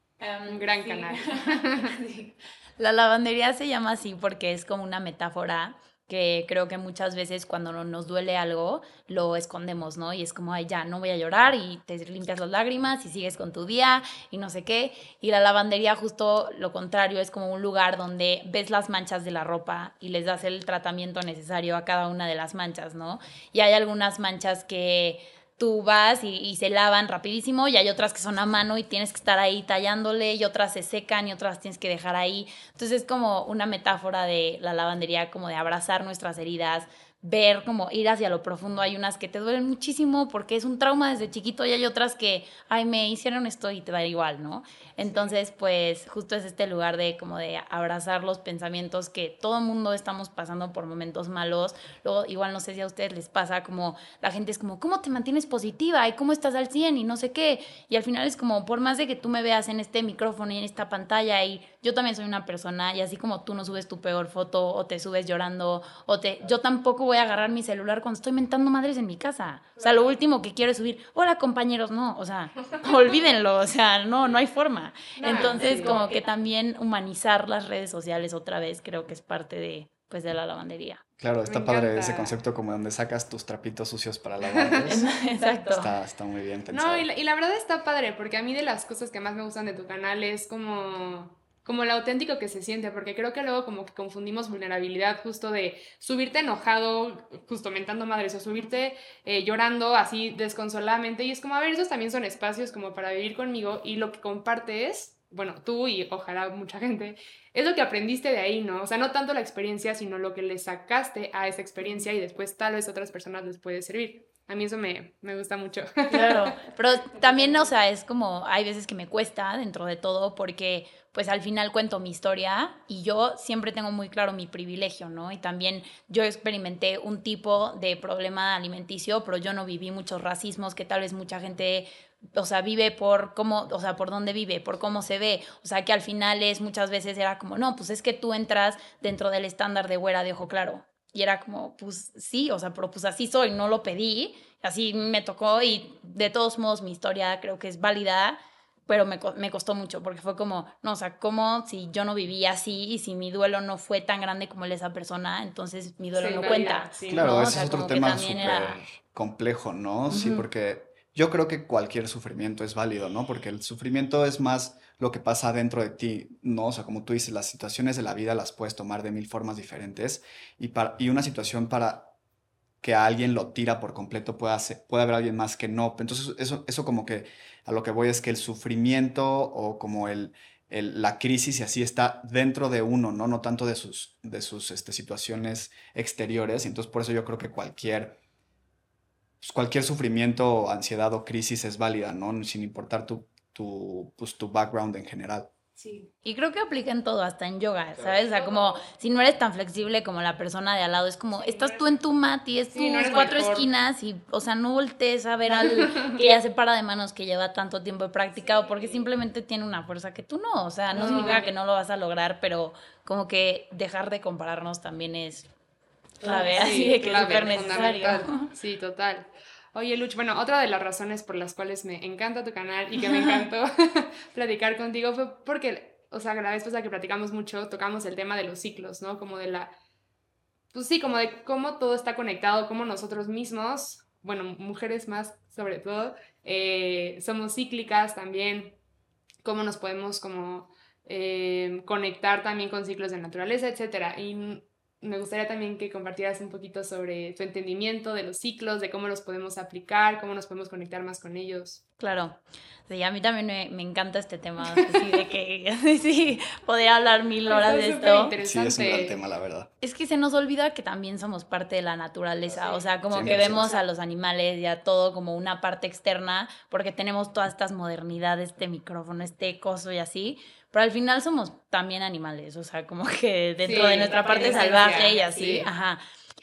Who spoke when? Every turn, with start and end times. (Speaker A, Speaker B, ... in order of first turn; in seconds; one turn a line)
Speaker A: 0.2-81.0
Speaker B: 0.5-1.9
Speaker B: 45.0-45.3
Speaker B: 75.2-76.0
Speaker C: 81.2-85.1
Speaker B: 81.4-82.4
Speaker B: 84.4-85.0
Speaker A: 84.9-85.9
Speaker C: 85.6-87.1
Speaker B: 86.7-117.7
Speaker A: 116.1-158.8
Speaker B: 156.2-157.4
Speaker C: 157.1-172.1
Speaker B: 160.1-160.4
Speaker C: 172.8-188.2
Speaker C: 189.4-195.5
Speaker B: 195.8-196.1
Speaker A: 196.2-215.5
Speaker B: 198.1-198.8
Speaker B: 201.3-201.9
Speaker B: 202.7-203.7
Speaker B: 205.6-206.4
Speaker B: 208.5-209.0
Speaker B: 210.9-211.5
Speaker A: 216.2-218.5
Speaker B: 216.2-229.7
Speaker B: 230.7-238.8
Speaker B: 239.4-251.8
Speaker A: 252.0-258.3
Speaker B: 257.5-259.2
Speaker C: 258.4-259.7
Speaker A: 259.8-276.0
Speaker B: 262.5-263.8
Speaker C: 263.1-263.7
Speaker B: 273.6-275.7